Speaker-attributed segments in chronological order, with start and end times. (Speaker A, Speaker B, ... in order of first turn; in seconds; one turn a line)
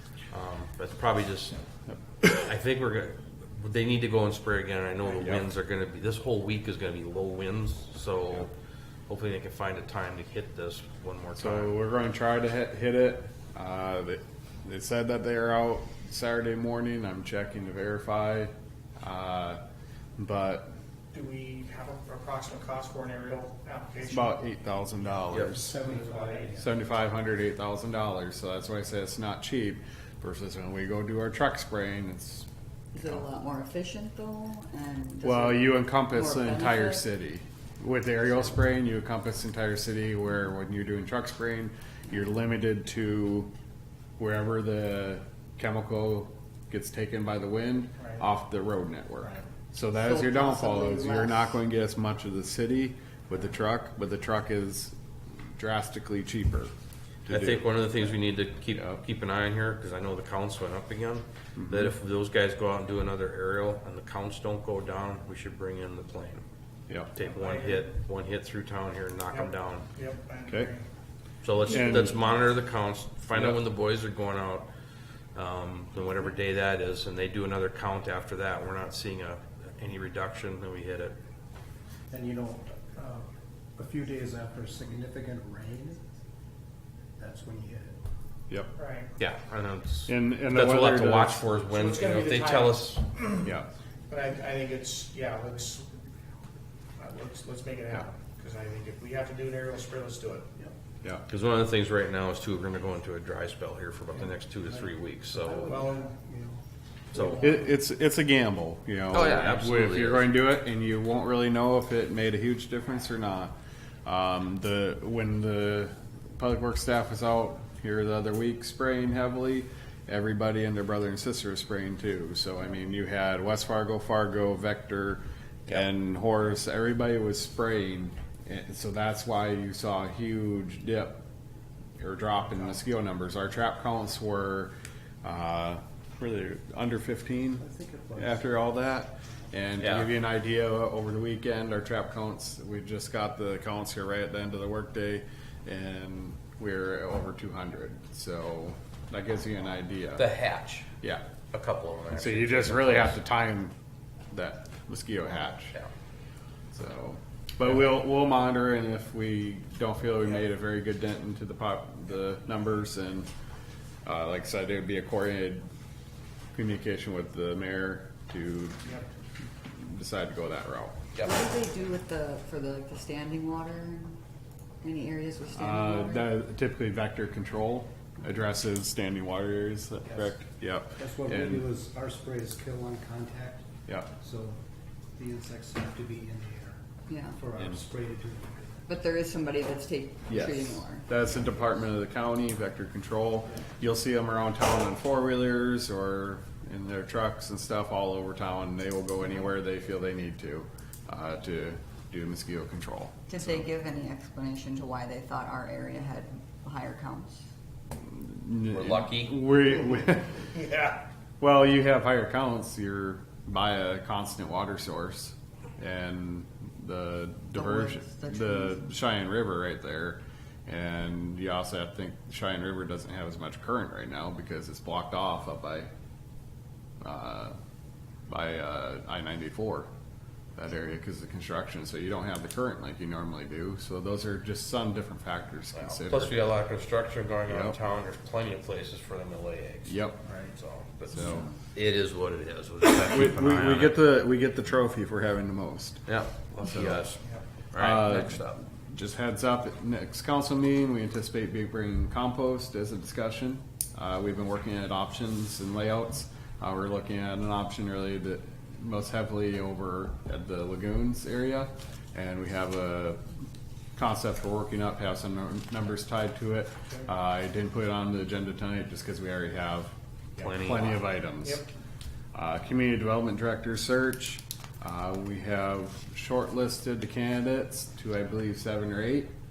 Speaker A: 0.3-1.6
Speaker B: 1.9-2.4
Speaker A: 2.4-8.5
Speaker B: 5.1-5.5
Speaker A: 9.1-11.8
Speaker B: 11.3-19.6
Speaker B: 20.2-20.7
Speaker C: 21.1-24.4
Speaker B: 24.1-25.7
Speaker A: 25.3-25.6
Speaker D: 25.4-26.7
Speaker C: 25.8-26.6
Speaker B: 26.6-32.5
Speaker E: 32.9-37.0
Speaker B: 35.2-43.5
Speaker B: 44.2-54.9
Speaker C: 48.0-48.2
Speaker E: 50.0-51.5
Speaker B: 55.5-56.7
Speaker B: 57.2-57.6
Speaker A: 57.3-66.4
Speaker B: 61.6-61.9
Speaker A: 67.1-69.9
Speaker C: 67.2-67.8
Speaker C: 69.3-70.8
Speaker A: 71.4-74.7
Speaker B: 71.7-72.2
Speaker A: 75.3-81.2
Speaker D: 82.1-86.0
Speaker D: 87.2-88.0
Speaker C: 88.7-89.1
Speaker A: 89.2-93.0
Speaker B: 90.1-91.4
Speaker C: 91.7-93.5
Speaker C: 94.1-95.9
Speaker C: 97.0-100.5
Speaker A: 101.3-105.8
Speaker D: 104.8-106.6
Speaker C: 105.7-106.2
Speaker A: 107.1-107.5
Speaker B: 107.4-131.2
Speaker A: 109.1-110.3
Speaker B: 132.0-137.6
Speaker D: 137.6-138.4
Speaker B: 138.2-150.3
Speaker A: 139.8-140.1
Speaker A: 150.2-150.9
Speaker A: 151.5-153.2
Speaker B: 152.1-153.7
Speaker B: 154.3-155.7
Speaker B: 156.7-163.3
Speaker B: 164.0-165.7
Speaker B: 166.5-168.9
Speaker B: 169.6-170.9
Speaker E: 171.2-174.2
Speaker E: 174.8-176.3
Speaker B: 175.6-181.7
Speaker D: 180.0-180.4
Speaker D: 180.9-183.7
Speaker D: 184.2-184.6
Speaker D: 185.2-188.8
Speaker E: 187.1-187.5
Speaker E: 188.9-191.1
Speaker B: 190.3-203.7
Speaker E: 203.3-207.5
Speaker B: 208.0-225.9
Speaker A: 208.7-209.4
Speaker E: 217.5-218.8
Speaker B: 227.0-227.6
Speaker B: 228.3-229.9
Speaker B: 230.6-236.5
Speaker A: 235.7-244.0
Speaker B: 237.5-237.8
Speaker B: 239.8-240.2
Speaker B: 241.1-241.5
Speaker E: 241.2-241.5
Speaker B: 243.1-246.0
Speaker A: 246.1-248.6
Speaker B: 246.7-247.0
Speaker B: 247.8-263.2
Speaker B: 263.9-269.9
Speaker A: 270.4-271.0
Speaker B: 270.5-271.7
Speaker C: 271.4-271.7
Speaker B: 272.3-279.3